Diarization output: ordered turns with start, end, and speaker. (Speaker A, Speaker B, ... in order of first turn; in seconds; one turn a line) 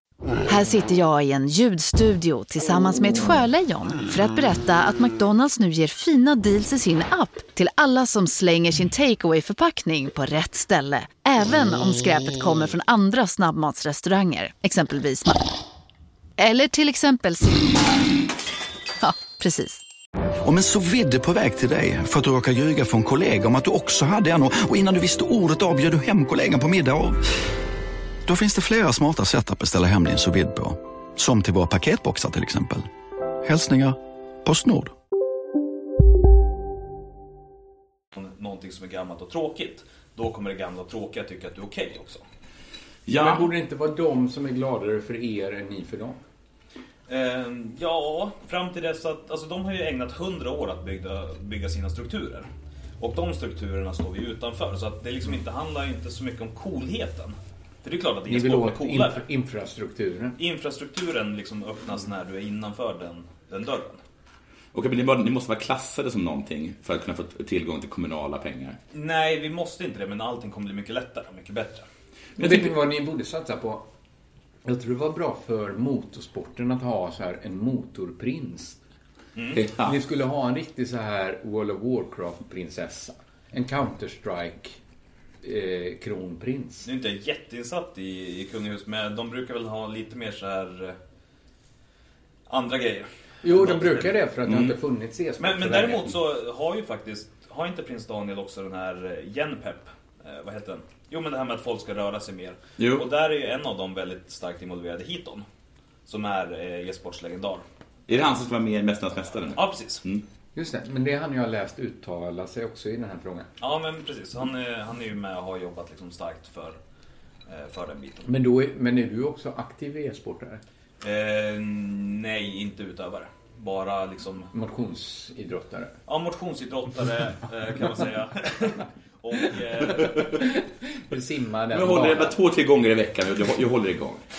Speaker A: 0.5-15.4
Speaker A: 16.4-17.9
Speaker A: 19.0-19.8
Speaker B: 20.4-27.2
Speaker B: 28.2-32.9
Speaker B: 33.4-34.9
Speaker C: 38.1-42.2
Speaker D: 43.1-43.5
Speaker E: 43.1-46.2
Speaker C: 47.1-59.2
Speaker E: 58.3-60.4
Speaker C: 60.4-64.0
Speaker D: 64.7-68.8
Speaker C: 68.9-71.8
Speaker D: 72.4-72.7
Speaker E: 72.4-73.8
Speaker E: 74.6-78.8
Speaker C: 79.3-79.6
Speaker D: 79.5-79.9
Speaker E: 79.7-84.8
Speaker E: 85.4-86.9
Speaker C: 86.8-91.0
Speaker C: 92.5-94.1
Speaker E: 93.4-96.1
Speaker D: 94.5-94.7
Speaker C: 95.4-105.4
Speaker D: 102.8-103.1
Speaker C: 106.0-107.6
Speaker D: 108.1-110.2
Speaker C: 109.5-110.0
Speaker E: 110.5-113.5
Speaker C: 113.6-116.8
Speaker C: 117.5-118.3
Speaker E: 118.2-120.6
Speaker C: 121.0-124.5
Speaker E: 124.5-125.9
Speaker C: 126.1-130.3
Speaker E: 129.9-132.4
Speaker D: 131.7-134.2